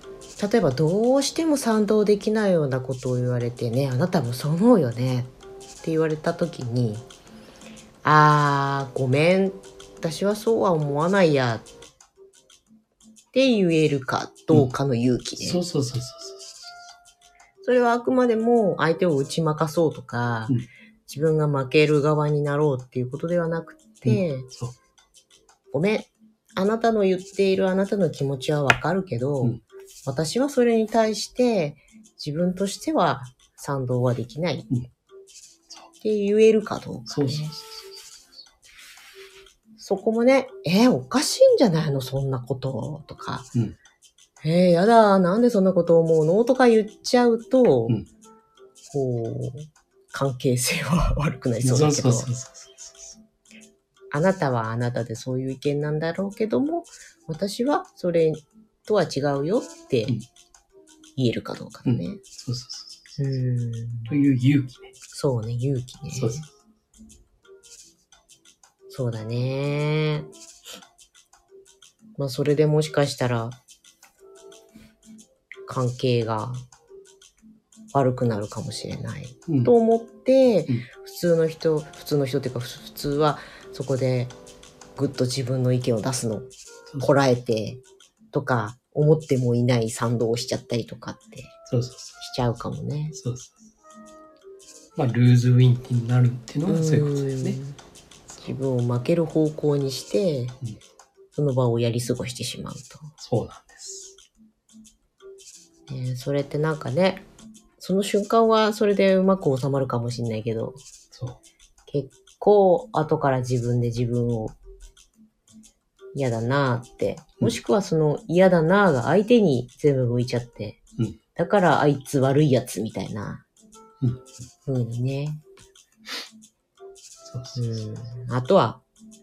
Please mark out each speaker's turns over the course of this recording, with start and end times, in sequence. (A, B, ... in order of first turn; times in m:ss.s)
0:00.4-0:05.3 A
0:05.8-0:07.0 A
0:08.0-0:11.7 A
0:13.3-0:15.6 A
0:15.4-0:16.7 B
0:17.6-0:24.5 A
0:24.0-0:24.7 B
0:25.7-0:34.7 A
0:36.0-0:37.5 A
0:37.1-0:38.0 B
0:39.8-0:43.5 A
0:44.4-0:48.0 A
0:48.9-0:52.3 A
0:51.6-0:53.2 B
0:54.1-1:00.2 A
1:01.2-1:02.2 A
1:01.8-1:03.2 B
1:03.2-1:04.1 A
1:04.1-1:04.9 B
1:05.1-1:06.4 A
1:06.1-1:06.5 B
1:08.9-1:10.3 A
1:12.2-1:13.6 A
1:15.7-1:16.6 A
1:17.9-1:24.3 A
1:19.5-1:19.7 B
1:25.0-1:26.5 A
1:27.0-1:31.5 A
1:31.7-1:32.2 B
1:32.2-1:33.2 A
1:33.1-1:33.6 B
1:35.0-1:37.6 B
1:36.7-1:37.8 A
1:38.3-1:38.6 B
1:38.4-1:40.6 A
1:41.3-1:43.1 A
1:43.2-1:44.2 B
1:45.9-1:47.2 A
1:47.8-1:50.8 A
1:51.1-1:51.4 B
1:51.9-1:54.6 A
1:56.1-2:00.8 A
2:01.3-2:03.4 A
2:04.6-2:05.4 A
2:07.2-2:07.8 B
2:07.6-2:08.8 A